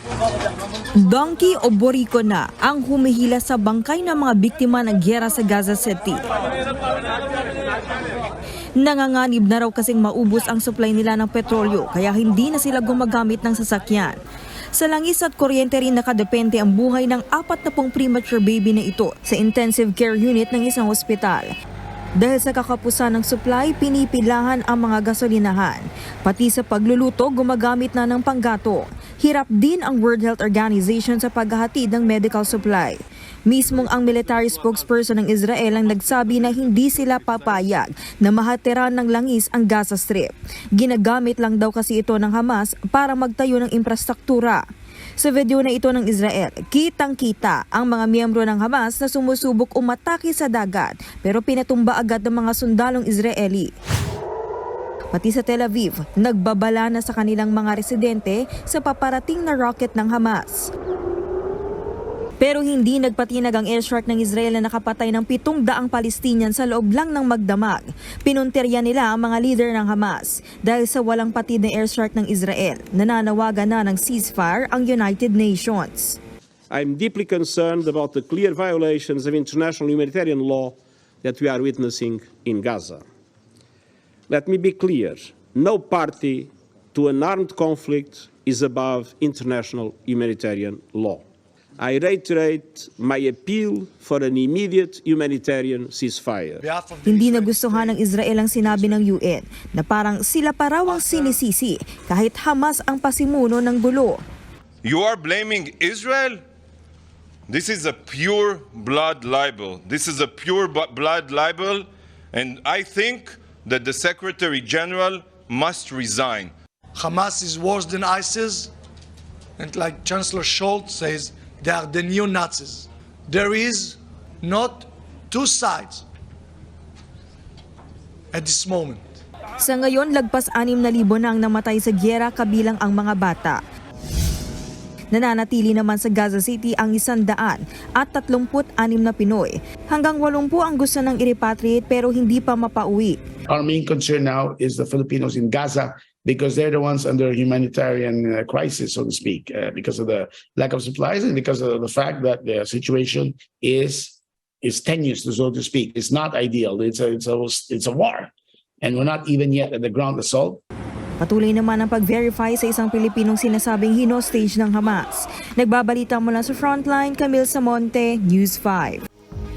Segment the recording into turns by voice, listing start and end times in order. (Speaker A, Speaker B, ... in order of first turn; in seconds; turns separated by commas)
Speaker A: 1.0-6.2, Speaker A: 8.8-14.2, Speaker A: 14.7-21.5, Speaker A: 22.2-33.0, Speaker A: 33.5-44.6, Speaker A: 45.2-53.7, Speaker A: 55.1-60.7, Speaker A: 62.4-76.2, Speaker B: 76.7-83.0, Speaker B: 84.3-91.2, Speaker B: 91.8-96.6, Speaker C: 96.6-99.0, Speaker A: 97.0-104.2, Speaker C: 100.9-101.4, Speaker D: 104.8-106.4, Speaker D: 107.5-116.5, Speaker C: 117.0-118.7, Speaker C: 119.6-126.0, Speaker C: 128.3-129.2, Speaker A: 129.6-133.6, Speaker A: 135.1-143.2, Speaker E: 143.5-160.6, Speaker A: 161.2-169.1